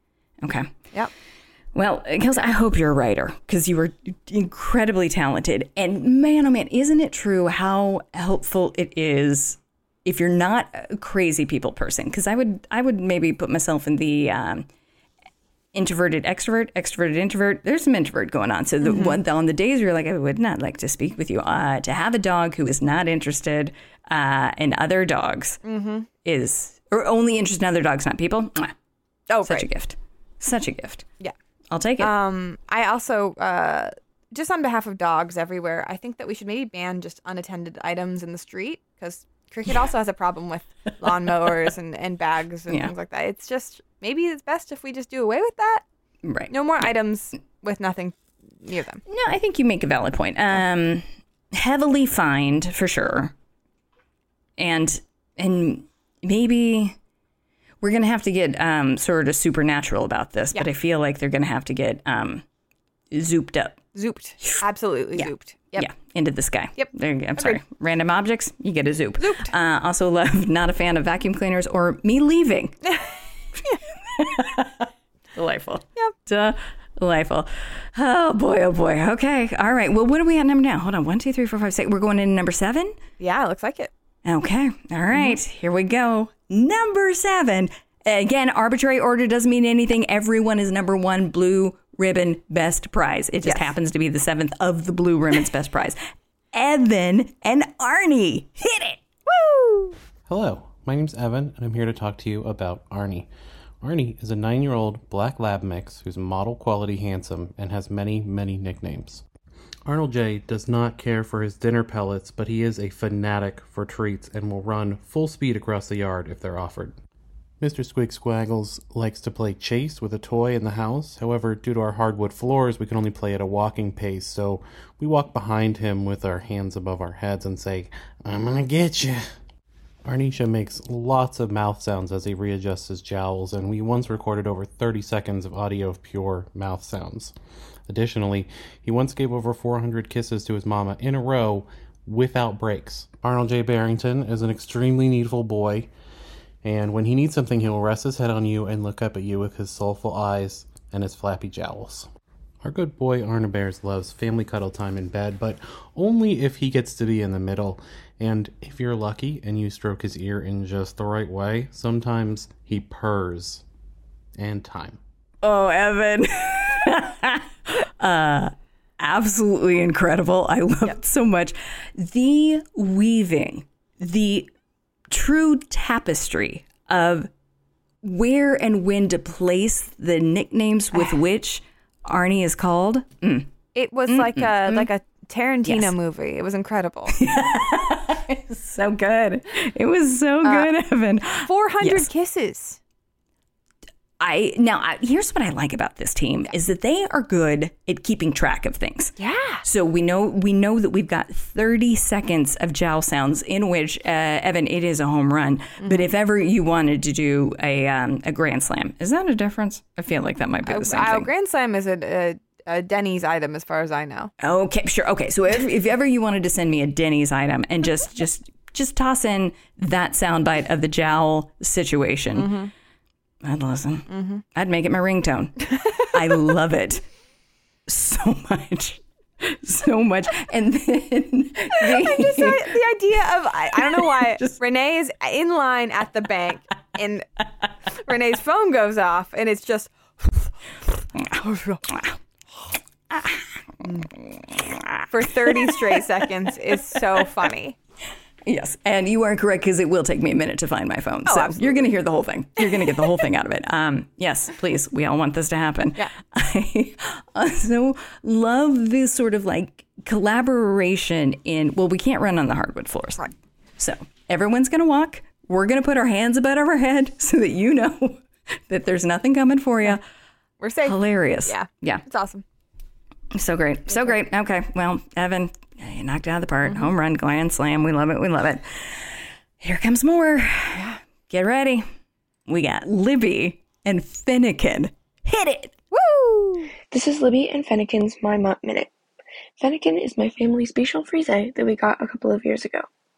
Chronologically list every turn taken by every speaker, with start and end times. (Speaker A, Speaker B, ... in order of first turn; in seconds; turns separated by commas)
Speaker A: 0.4-0.7, Speaker A: 1.7-14.7, Speaker A: 15.7-25.6, Speaker B: 18.8-19.2, Speaker B: 25.6-26.1, Speaker A: 26.2-28.7, Speaker B: 29.3-29.7, Speaker A: 29.4-31.1, Speaker A: 31.7-32.1, Speaker B: 32.0-45.9, Speaker A: 46.2-47.0, Speaker B: 46.5-49.0, Speaker A: 49.1-53.3, Speaker A: 54.6-57.0, Speaker A: 57.8-62.4, Speaker A: 63.1-63.8, Speaker B: 64.0-65.9, Speaker A: 65.2-72.8, Speaker B: 66.8-67.6, Speaker B: 69.2-69.5, Speaker A: 74.1-83.0, Speaker B: 83.2-83.9, Speaker A: 84.2-96.0, Speaker B: 93.4-93.7, Speaker A: 96.5-99.0, Speaker B: 99.3-100.0, Speaker C: 100.3-103.3, Speaker C: 103.8-109.2, Speaker C: 109.9-117.0, Speaker C: 117.6-129.2, Speaker C: 130.1-137.3, Speaker C: 137.9-145.9, Speaker C: 146.6-152.1, Speaker C: 152.6-163.6, Speaker C: 164.4-165.0, Speaker A: 165.4-174.5, Speaker A: 175.1-177.3, Speaker A: 178.0-183.5, Speaker B: 183.7-187.1, Speaker A: 184.1-184.9, Speaker A: 185.7-185.9, Speaker A: 187.1-192.1, Speaker B: 190.4-190.7, Speaker B: 191.4-192.8, Speaker A: 194.2-211.3, Speaker B: 199.2-199.6, Speaker B: 205.8-206.1, Speaker B: 210.7-214.3, Speaker A: 214.4-222.5, Speaker B: 222.3-222.7, Speaker A: 223.4-227.0, Speaker B: 224.1-224.4, Speaker B: 225.8-226.1, Speaker A: 227.9-232.7, Speaker B: 231.8-237.3, Speaker A: 233.9-234.6, Speaker B: 237.9-240.5, Speaker B: 241.3-242.0, Speaker A: 243.1-243.4, Speaker B: 243.8-244.1, Speaker A: 244.3-246.0, Speaker B: 245.1-247.8, Speaker A: 248.5-263.2, Speaker B: 251.3-251.9, Speaker B: 252.6-253.1, Speaker A: 263.8-270.0, Speaker B: 270.6-272.4, Speaker A: 270.8-272.0, Speaker A: 273.3-281.9, Speaker B: 273.9-274.2, Speaker B: 276.7-276.9, Speaker B: 280.7-281.0, Speaker A: 282.5-285.8, Speaker B: 285.9-286.7, Speaker D: 286.8-288.9, Speaker D: 289.6-292.9